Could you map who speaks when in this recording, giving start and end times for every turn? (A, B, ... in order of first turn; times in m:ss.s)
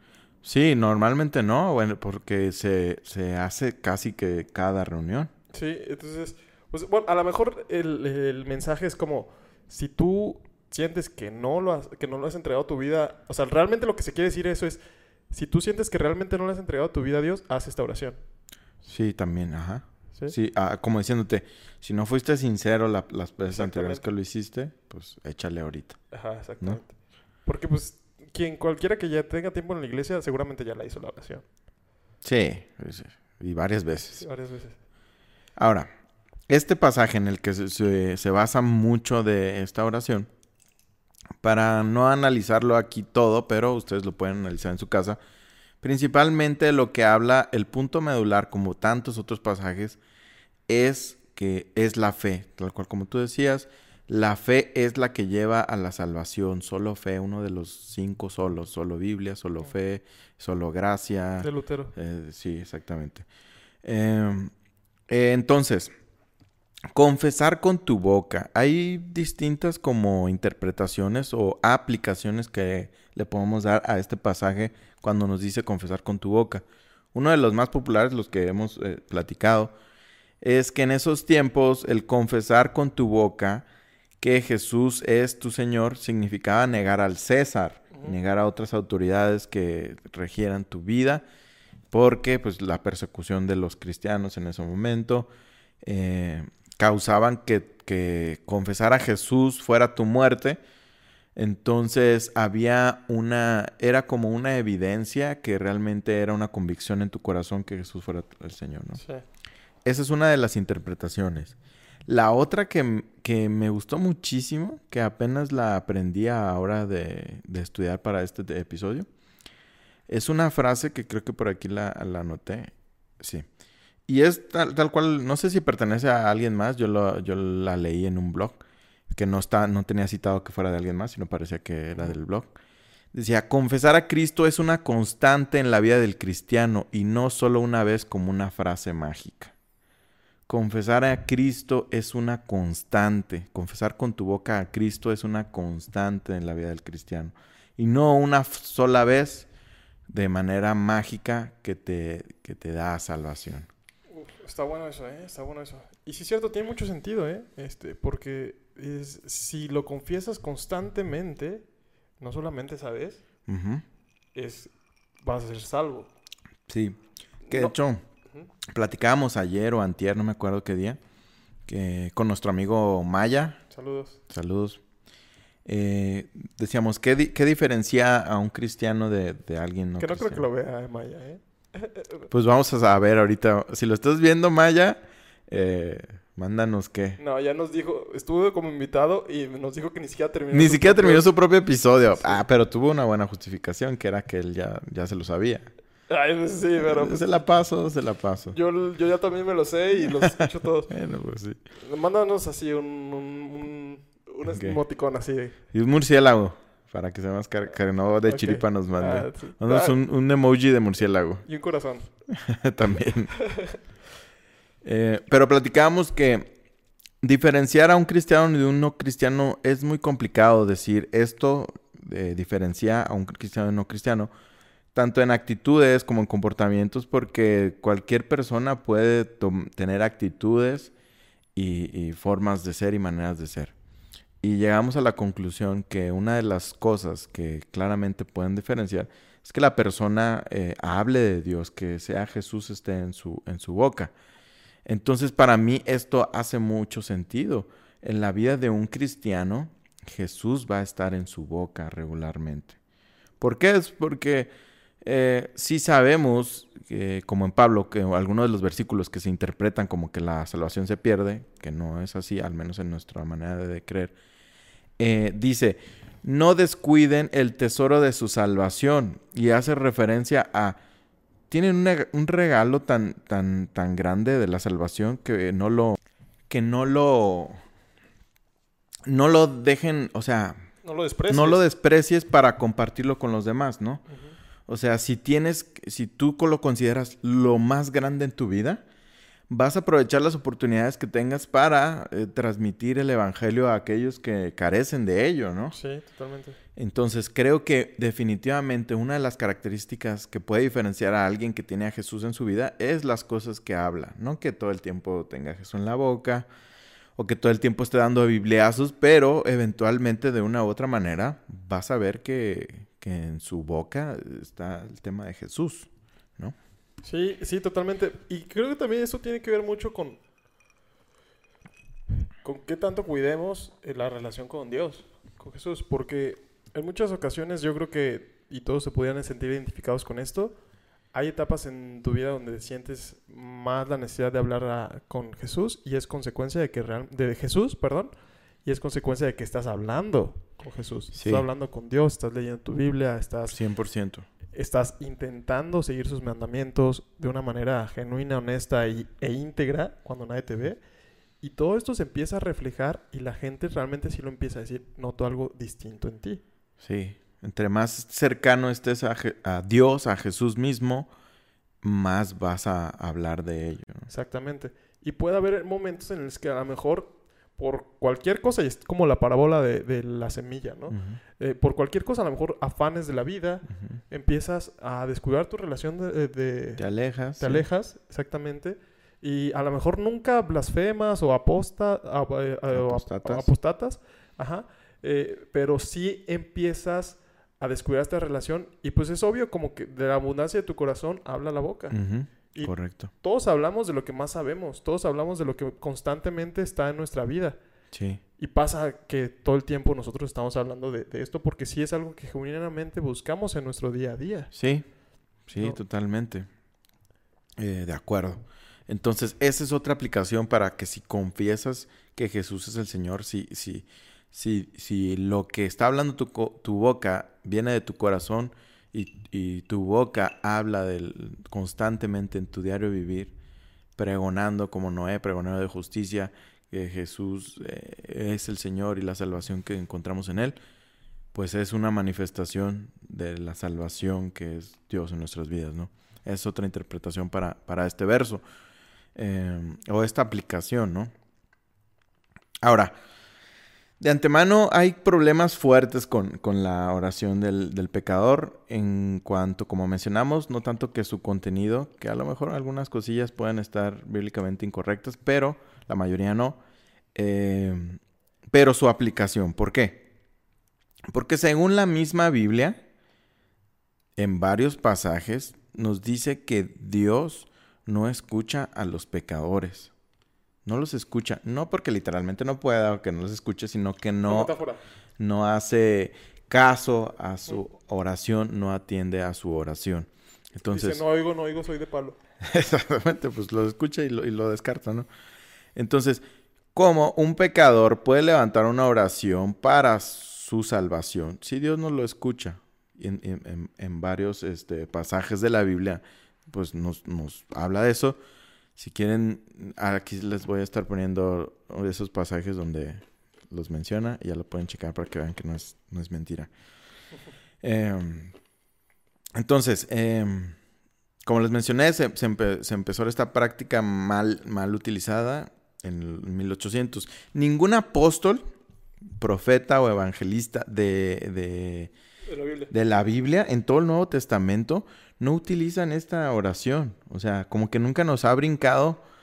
0:00.4-0:05.3 A
0:05.5-0:18.2 B
0:18.8-0:26.8 A
0:23.5-0:24.0 B
0:26.1-0:31.4 B
0:32.2-0:34.2 A
0:34.1-0:34.8 B
0:35.6-0:35.9 A
0:36.5-0:40.3 A
0:41.4-0:45.2 A
0:45.8-0:50.0 A
0:50.7-1:03.2 A
1:01.4-1:01.9 B
1:03.8-1:04.5 A
1:05.1-1:05.9 A
1:06.9-1:19.7 A
1:20.4-1:23.6 A
1:24.2-1:31.2 A
1:31.9-1:35.3 A
1:35.8-1:40.6 A
1:41.3-1:49.0 A
1:49.0-1:49.2 B
1:49.8-1:51.5 A
1:52.1-1:59.1 A
2:00.1-2:03.5 A
2:04.1-2:12.5 A
2:13.1-2:19.5 A
2:20.5-2:29.5 A
2:30.1-2:33.7 A
2:34.1-2:41.6 B
2:42.2-2:43.2 B
2:43.5-2:43.8 A
2:44.3-2:46.1 B
2:46.7-2:47.0 A
2:47.4-2:47.8 B
2:47.5-2:48.0 A
2:48.7-2:51.0 A
2:51.7-2:53.6 A
2:53.7-2:54.2 B
2:54.3-2:54.8 A
2:55.6-3:00.4 A
3:00.0-3:02.3 B
3:02.3-3:07.2 A
3:07.2-3:11.3 B
3:10.5-3:15.7 A
3:12.1-3:12.4 B
3:16.1-3:17.2 B
3:16.8-3:18.6 A
3:18.5-3:20.9 B
3:20.9-3:21.6 A
3:21.8-3:25.6 B
3:24.4-3:24.8 A
3:25.7-3:31.4 A
3:28.3-3:30.0 B
3:31.4-3:32.1 B
3:32.3-3:33.3 A
3:34.8-3:36.5 A
3:37.2-3:44.3 A
3:44.9-3:50.9 A
3:51.5-3:53.7 A
3:54.4-4:04.1 A
4:04.8-4:12.8 A
4:13.4-4:14.5 A
4:15.0-4:24.1 A
4:25.0-4:30.8 A
4:31.5-4:37.6 A
4:39.0-4:40.6 A
4:40.8-4:41.6 B
4:41.3-4:44.0 A
4:44.1-4:44.3 B
4:44.7-4:48.8 A
4:49.5-4:55.8 A
4:55.7-4:56.6 B
4:56.8-5:06.5 A
5:07.2-5:16.6 A
5:17.0-5:20.2 B
5:22.4-5:30.6 B
5:31.1-5:38.1 B
5:38.6-5:43.6 B
5:41.1-5:41.4 A
5:43.5-5:44.2 A
5:44.5-5:50.8 B
5:51.4-5:56.4 B
5:56.8-6:01.1 A
6:01.8-6:04.1 A
6:04.1-6:16.8 B
6:10.9-6:11.2 A
6:16.8-6:17.6 A
6:17.4-6:37.6 B
6:22.7-6:23.5 A
6:31.9-6:33.1 A
6:37.9-6:38.2 A
6:38.4-6:44.5 B
6:44.5-6:44.8 A
6:45.5-6:46.5 A
6:47.6-7:03.3 A
7:04.0-7:10.6 A
7:11.3-7:18.4 A
7:19.1-7:21.1 A
7:22.6-7:22.9 A
7:24.0-7:36.6 A
7:37.1-7:38.0 A
7:38.5-7:40.0 A
7:41.1-7:42.8 A
7:44.2-7:49.9 A
7:50.6-7:54.5 A
7:54.2-7:54.8 B
7:55.2-8:01.0 A
8:00.7-8:02.2 B
8:02.4-8:05.1 A
8:05.7-8:18.2 A
8:18.8-8:26.5 A
8:27.6-8:28.3 A
8:29.4-8:30.6 A
8:31.2-8:38.4 A
8:39.2-8:41.9 A
8:42.3-8:42.7 B
8:42.7-8:49.0 A